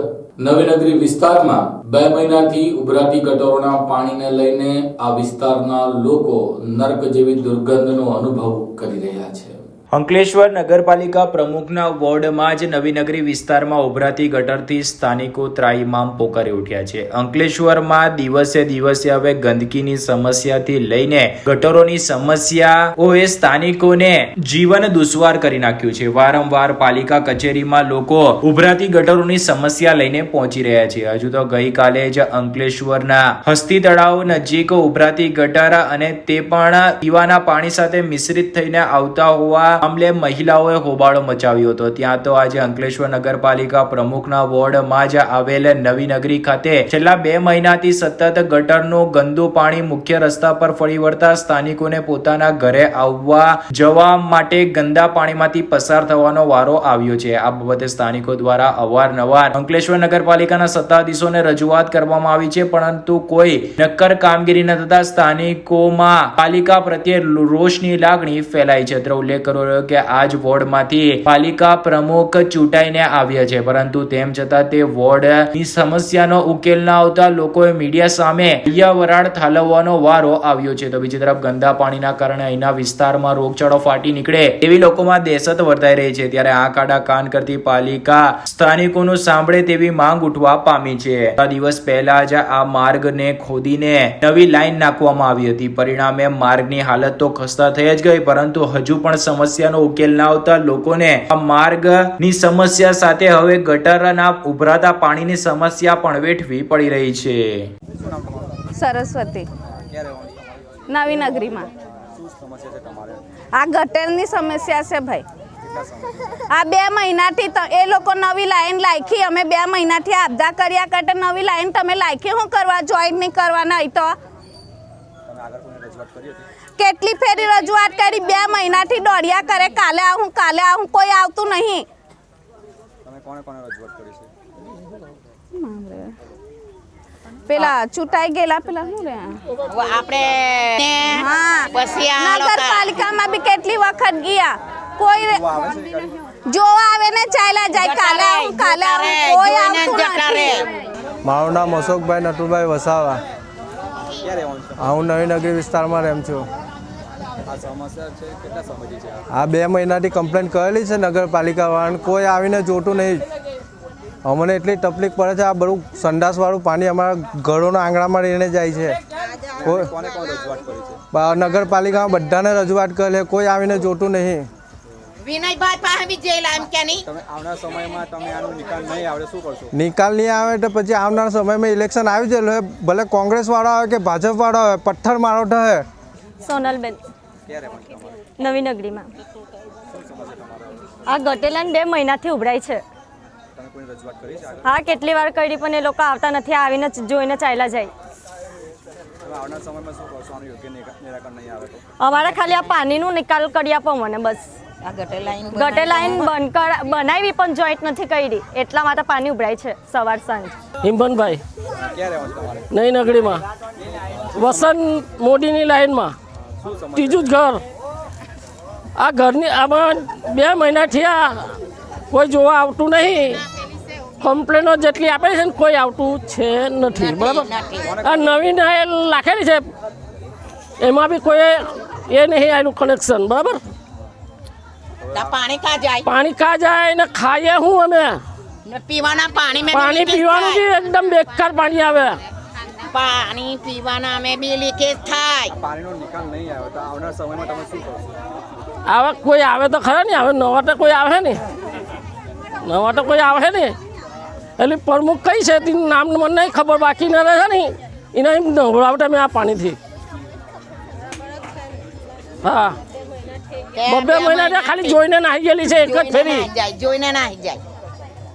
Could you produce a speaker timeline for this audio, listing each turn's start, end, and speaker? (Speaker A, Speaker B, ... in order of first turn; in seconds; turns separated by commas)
Speaker A: 0.4-9.6, Speaker B: 9.9-107.7, Speaker C: 107.9-108.6, Speaker D: 108.8-109.5, Speaker C: 109.9-110.8, Speaker D: 110.9-111.7, Speaker C: 112.1-113.2, Speaker D: 113.5-115.2, Speaker C: 115.6-116.3, Speaker D: 116.5-124.1, Speaker C: 125.2-126.5, Speaker D: 126.8-131.8, Speaker C: 133.0-134.3, Speaker D: 135.6-136.1, Speaker D: 137.5-139.4, Speaker E: 139.7-143.0, Speaker D: 141.1-145.4, Speaker C: 145.3-146.2, Speaker D: 146.5-150.6, Speaker E: 147.7-150.7, Speaker F: 151.2-153.2, Speaker C: 154.2-155.0, Speaker F: 154.8-156.5, Speaker C: 157.5-159.2, Speaker F: 159.3-163.2, Speaker F: 164.2-169.0, Speaker C: 169.6-171.0, Speaker F: 169.6-169.9, Speaker F: 171.1-174.5, Speaker E: 175.2-177.0, Speaker C: 177.1-179.7, Speaker F: 179.7-185.8, Speaker G: 186.4-187.0, Speaker C: 187.5-188.2, Speaker G: 188.4-189.1, Speaker C: 189.9-190.9, Speaker G: 191.1-192.8, Speaker C: 193.5-195.0, Speaker G: 194.6-197.9, Speaker C: 199.2-201.9, Speaker G: 202.0-204.5, Speaker E: 204.8-206.3, Speaker G: 205.5-210.5, Speaker H: 210.8-211.4, Speaker C: 211.9-212.7, Speaker H: 212.7-213.4, Speaker C: 213.8-214.7, Speaker H: 214.3-216.2, Speaker C: 216.6-217.3, Speaker H: 216.9-217.6, Speaker H: 219.0-221.6, Speaker H: 222.1-223.4, Speaker H: 224.2-229.7, Speaker E: 226.9-227.9, Speaker C: 227.8-228.4, Speaker H: 230.8-233.6, Speaker C: 235.0-235.4, Speaker E: 235.1-236.1, Speaker H: 236.1-238.2, Speaker E: 238.6-240.6, Speaker H: 239.7-242.2, Speaker E: 242.9-245.5, Speaker C: 245.5-248.1, Speaker H: 248.8-251.4, Speaker H: 252.6-253.8, Speaker H: 254.6-259.8, Speaker H: 262.4-262.8, Speaker E: 263.7-265.0, Speaker H: 263.8-266.5, Speaker E: 265.7-267.6